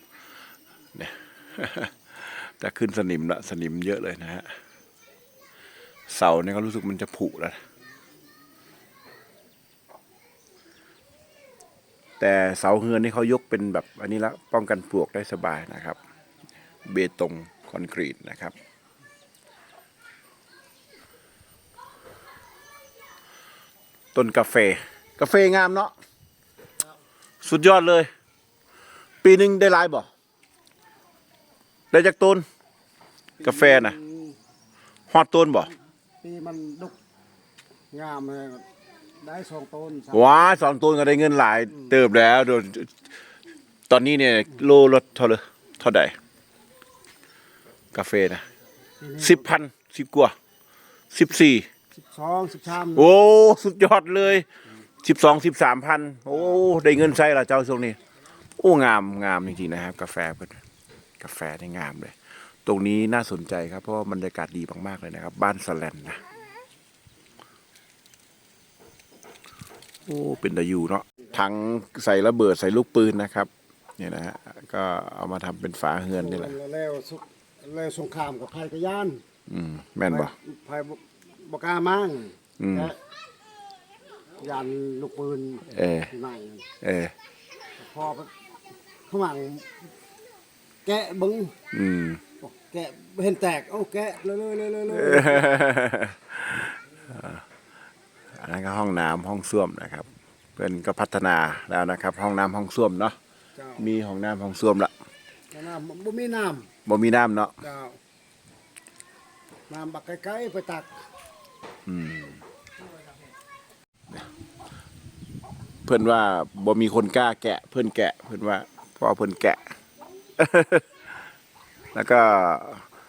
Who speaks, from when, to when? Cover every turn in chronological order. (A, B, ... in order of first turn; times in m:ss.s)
0:00.9-0:04.5 A
0:06.1-0:07.6 A
0:12.2-0:16.0 A
0:16.8-0:18.5 A
0:24.1-0:25.9 A
0:27.4-0:28.1 A
0:29.2-0:30.1 A
0:31.9-0:32.4 A
0:33.4-0:34.3 B
0:33.4-0:34.0 A
0:35.1-0:35.7 A
0:36.2-0:36.9 B
0:37.9-0:38.6 B
0:39.2-0:40.2 B
0:40.1-0:42.9 A
0:43.9-0:46.1 A
0:47.9-0:48.4 A
0:49.0-0:49.4 B
0:49.2-0:50.3 A
0:51.1-0:51.7 A
0:52.0-0:53.1 B
0:52.9-0:54.5 A
0:55.0-0:58.0 A
0:58.6-1:00.6 A
1:01.2-1:06.2 A
1:10.0-1:16.5 A
1:16.2-1:19.2 B
1:19.5-1:20.3 A
1:20.1-1:22.9 B
1:22.6-1:22.9 A
1:24.4-1:26.6 B
1:25.7-1:26.1 A
1:26.8-1:27.1 A
1:27.8-1:28.3 B
1:29.1-1:29.7 B
1:30.8-1:31.5 B
1:31.7-1:32.2 A
1:32.4-1:35.5 B
1:34.9-1:37.4 A
1:38.3-1:43.2 A
1:43.6-1:43.8 B
1:43.8-1:44.9 A
1:45.5-1:46.7 B
1:46.8-1:47.5 A
1:47.6-1:48.0 B
1:49.7-1:50.9 B
1:51.8-1:52.4 A
1:55.8-1:59.7 A
2:00.4-2:01.1 A
2:01.9-2:02.8 A